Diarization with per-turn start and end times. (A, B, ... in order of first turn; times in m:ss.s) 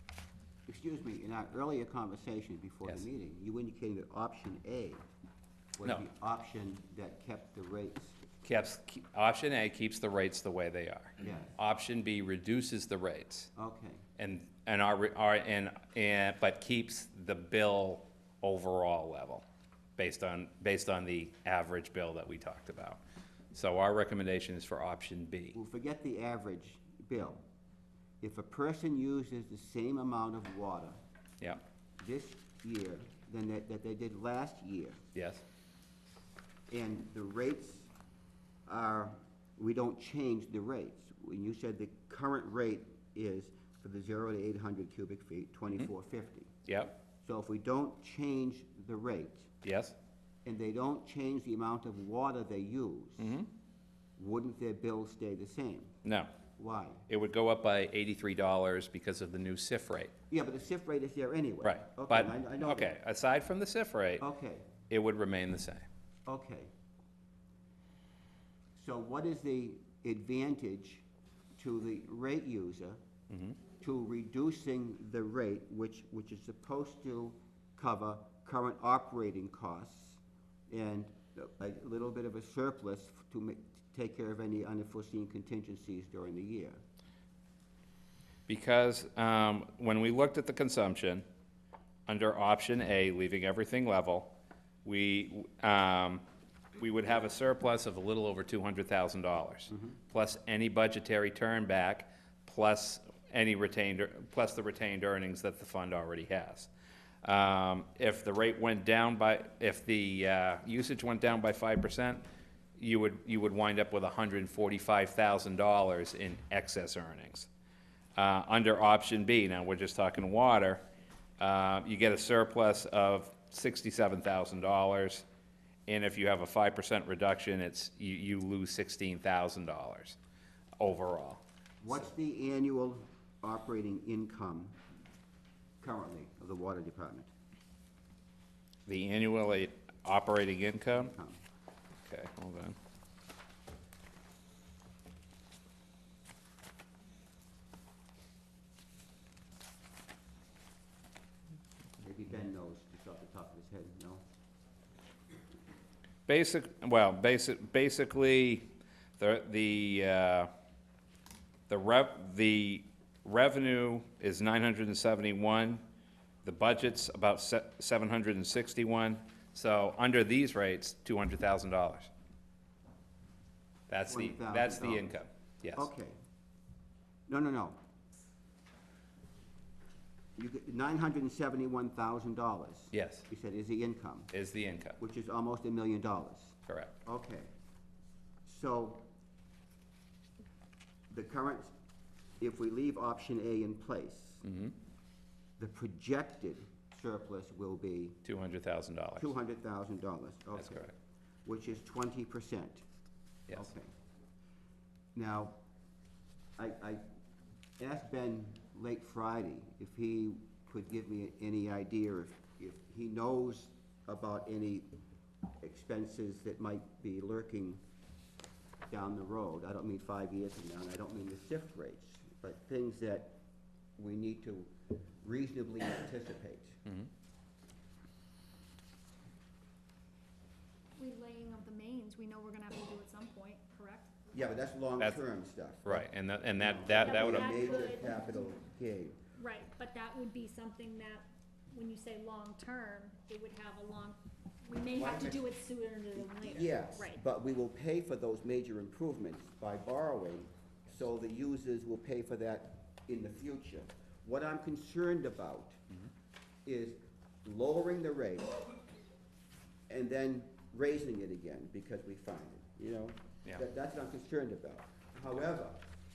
0:00.7-0:05.0 A
0:05.8-0:08.2 A
0:08.4-0:13.5 B
0:11.2-0:11.6 A
0:13.6-0:14.0 A
0:14.2-0:19.4 B
0:20.0-0:23.0 B
0:23.5-0:25.6 B
0:25.5-0:27.4 A
0:28.2-0:31.0 A
0:32.0-0:35.0 A
0:35.1-0:35.4 B
0:36.7-0:37.9 A
0:38.6-0:46.5 A
0:46.6-0:46.9 B
0:47.2-0:49.5 A
0:49.6-0:49.9 B
0:50.4-0:53.4 A
0:53.2-0:53.5 B
0:54.2-0:55.9 A
0:56.0-0:56.3 B
0:56.6-0:57.0 A
0:57.1-1:00.1 B
1:00.3-1:02.9 A
1:01.6-1:04.2 B
1:04.2-1:04.7 A
1:04.9-1:05.8 B
1:06.2-1:06.7 A
1:08.7-1:11.0 A
1:11.6-1:13.0 A
1:13.3-1:13.6 B
1:13.8-1:26.8 A
1:28.5-1:31.2 B
1:32.1-1:36.2 B
1:36.8-1:46.7 B
1:47.2-1:52.2 B
1:52.8-1:57.5 B
1:58.2-2:00.8 B
2:01.4-2:05.2 B
2:05.9-2:10.2 B
2:10.8-2:11.4 B
2:11.8-2:14.8 A
2:15.8-2:17.3 A
2:18.8-2:21.1 B
2:20.9-2:21.4 A
2:22.0-2:22.8 B
2:32.0-2:34.2 A
2:36.3-2:40.5 B
2:41.7-2:45.8 B
2:46.4-2:52.1 B
2:53.9-2:55.9 B
2:54.1-2:55.2 A
2:55.7-2:56.2 A
2:57.3-2:57.8 A
3:00.4-3:04.3 A
3:02.9-3:03.3 B
3:04.3-3:05.0 B
3:05.0-3:07.5 A
3:06.7-3:06.9 B
3:08.4-3:09.1 A
3:11.1-3:11.7 A
3:12.4-3:14.4 A
3:14.4-3:14.7 B
3:15.6-3:18.2 A
3:18.2-3:19.3 B
3:19.2-3:20.9 A
3:20.6-3:20.9 B
3:21.4-3:22.8 A
3:23.5-3:23.9 A
3:25.1-3:25.6 A
3:26.6-3:27.0 A
3:27.8-3:34.9 A
3:35.6-3:37.8 A
3:38.9-3:43.4 A
3:44.0-3:46.8 A
3:51.0-3:54.2 C
3:54.3-3:59.2 A
3:55.8-3:57.7 B
3:57.0-3:58.5 C
3:59.4-4:07.2 C
4:04.9-4:05.4 A
4:06.3-4:15.8 A
4:16.6-4:18.6 A
4:19.9-4:25.8 A